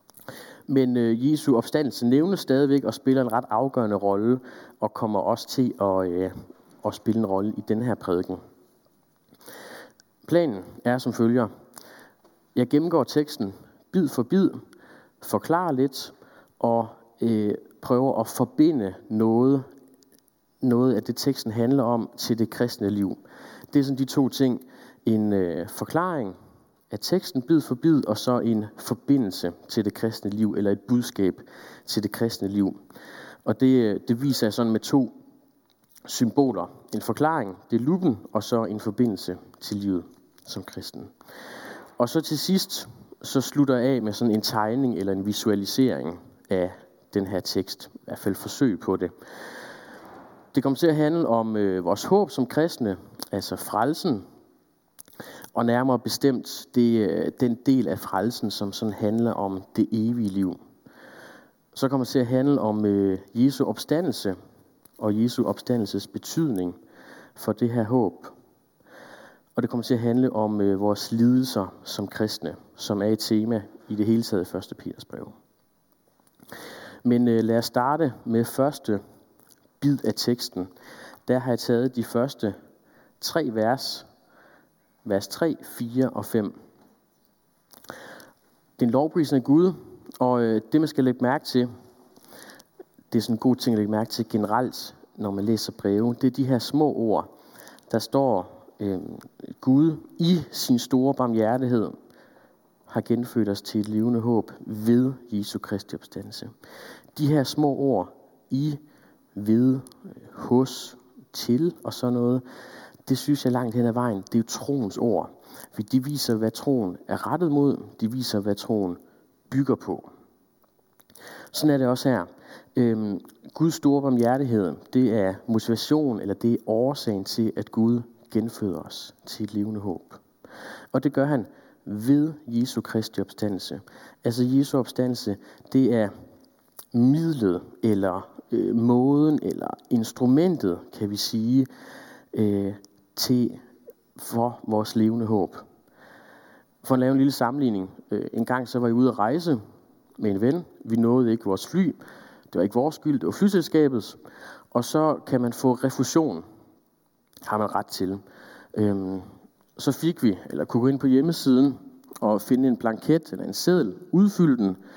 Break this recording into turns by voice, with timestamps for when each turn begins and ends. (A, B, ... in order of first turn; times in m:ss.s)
0:00.7-0:08.4 A
0:10.2-0:11.5 A
0:12.6-0:14.6 A
0:15.2-0:19.7 A
0:20.6-0:23.2 A
0:23.7-0:26.4 A
0:26.9-0:32.8 A
0:33.4-0:35.1 A
0:36.1-0:41.1 A
0:42.0-0:49.1 A
0:50.5-0:54.2 A
0:55.6-1:00.6 A
1:01.7-1:04.4 A
1:05.0-1:06.8 A
1:07.4-1:08.3 A
1:09.6-1:15.4 A
1:17.0-1:19.0 A
1:19.8-1:20.7 A
1:21.3-1:22.6 A
1:23.2-1:24.1 A
1:25.0-1:26.6 A
1:28.8-1:31.7 A
1:33.1-1:37.3 A
1:37.9-1:42.0 A
1:42.9-1:46.5 A
1:47.2-1:48.8 A
1:49.4-1:52.4 A
1:53.1-1:59.0 A
1:59.5-2:00.1 A
2:01.5-2:10.2 A
2:10.9-2:16.1 A
2:16.9-2:21.7 A
2:22.3-2:23.6 A
2:24.2-2:25.6 A
2:26.8-2:29.6 A
2:30.2-2:32.0 A
2:32.5-2:34.2 A
2:34.7-2:36.4 A
2:37.4-2:38.2 A
2:38.7-2:44.8 A